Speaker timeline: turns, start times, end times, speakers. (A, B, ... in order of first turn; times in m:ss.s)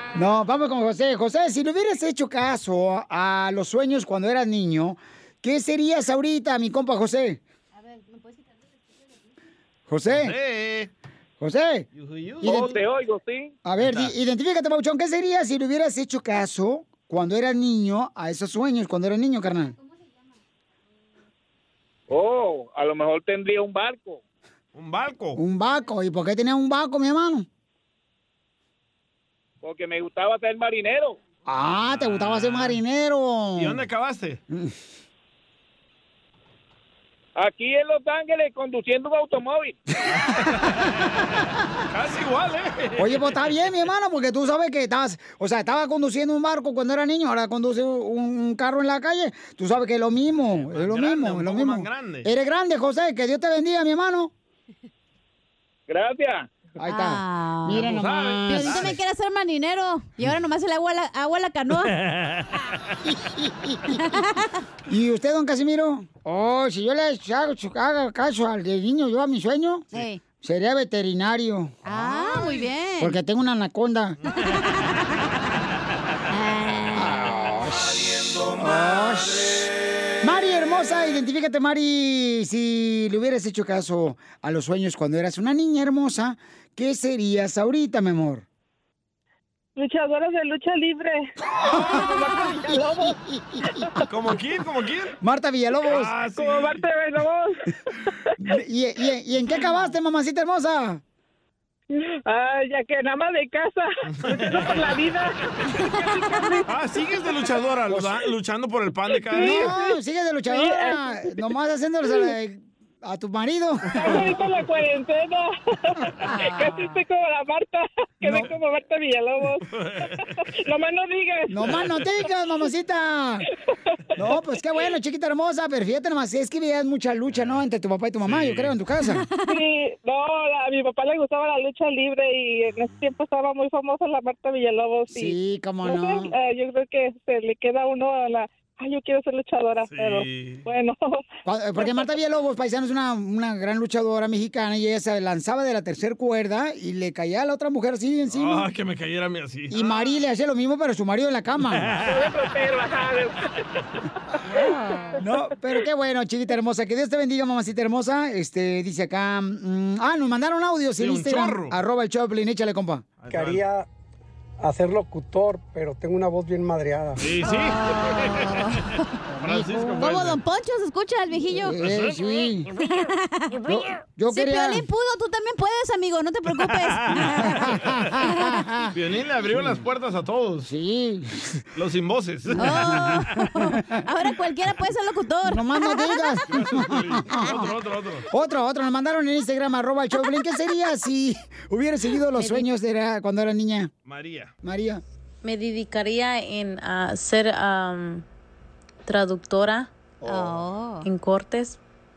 0:00.1-0:07.4 A
0:09.9-0:10.4 A
0:10.1-0:10.9 B
0:11.4-0:11.9 A
0:12.0-0:12.8 B
0:12.4-0:12.7 A
0:12.4-0:13.6 C
0:13.6-0:19.8 A
0:13.8-0:14.1 B
0:22.1-0:24.2 C
0:24.8-0:25.4 B
0:25.4-0:27.5 A
0:29.6-0:31.2 C
0:31.5-0:33.8 A
0:31.9-0:32.8 B
0:33.6-0:34.4 B
0:37.4-0:39.8 C
0:40.1-0:43.4 B
0:43.0-0:54.3 A
0:50.6-0:52.3 B
0:55.9-0:56.5 C
0:56.8-0:59.0 A
0:56.8-0:57.9 D
0:57.7-0:59.0 B
0:58.5-1:02.0 D
1:02.0-1:02.5 B
1:03.2-1:04.0 A
1:03.9-1:04.6 D
1:04.9-1:09.9 A
1:09.9-1:10.2 D
1:10.4-1:11.7 A
1:11.8-1:13.1 D
1:13.0-1:14.2 A
1:14.3-1:15.3 D
1:16.3-1:17.2 D
1:16.9-1:19.7 A
1:20.2-1:28.4 A
1:29.8-1:33.2 E
1:31.6-1:33.9 A
1:31.7-1:32.1 B
1:34.0-1:35.1 B
1:35.2-1:36.2 A
1:35.9-1:36.8 B
1:36.3-1:37.6 E
1:38.4-1:41.0 A
1:41.9-1:46.7 E
1:44.2-1:45.0 B
1:46.7-1:49.6 B
1:49.1-1:50.0 E
1:49.4-1:54.2 A
1:50.5-1:51.4 E
1:53.9-1:59.7 E
1:54.1-1:54.5 B
1:56.2-1:57.0 D
1:58.2-1:58.5 A
1:59.8-2:00.2 B
2:00.4-2:02.0 E
2:01.5-2:03.5 A
2:04.2-2:09.3 A
2:08.2-2:08.7 B
2:09.5-2:21.2 E
2:15.1-2:16.3 A
2:19.9-2:20.6 B
2:21.5-2:28.7 A
2:28.3-2:30.2 B
2:29.7-2:32.0 A
2:31.7-2:32.3 B
2:32.1-2:33.3 E
2:32.6-2:33.1 C
2:34.4-2:43.0 A
2:34.6-2:35.2 E
2:41.0-2:41.8 B
2:43.2-2:43.7 B
2:43.3-2:43.9 F
2:44.6-2:47.4 F
2:47.2-2:48.8 B
2:47.4-2:49.0 D
2:49.4-2:50.4 B
2:49.4-2:50.0 A
2:50.0-2:51.8 D
2:51.6-2:52.7 A
2:51.8-2:52.3 B
2:52.8-2:58.6 D
2:53.7-2:54.8 A
2:56.6-2:57.5 B
2:57.4-2:58.9 A
2:58.9-3:00.7 B
3:00.7-3:01.6 A
3:01.8-3:03.2 B
3:02.6-3:06.4 D
3:03.6-3:04.0 A
3:05.4-3:07.7 A
3:06.5-3:08.3 B
3:08.3-3:13.9 A
3:12.4-3:12.7 D
3:14.1-3:14.5 B
3:14.6-3:15.0 A
3:15.6-3:18.1 G
3:19.1-3:19.8 G
3:20.3-3:21.1 D
3:21.3-3:21.7 G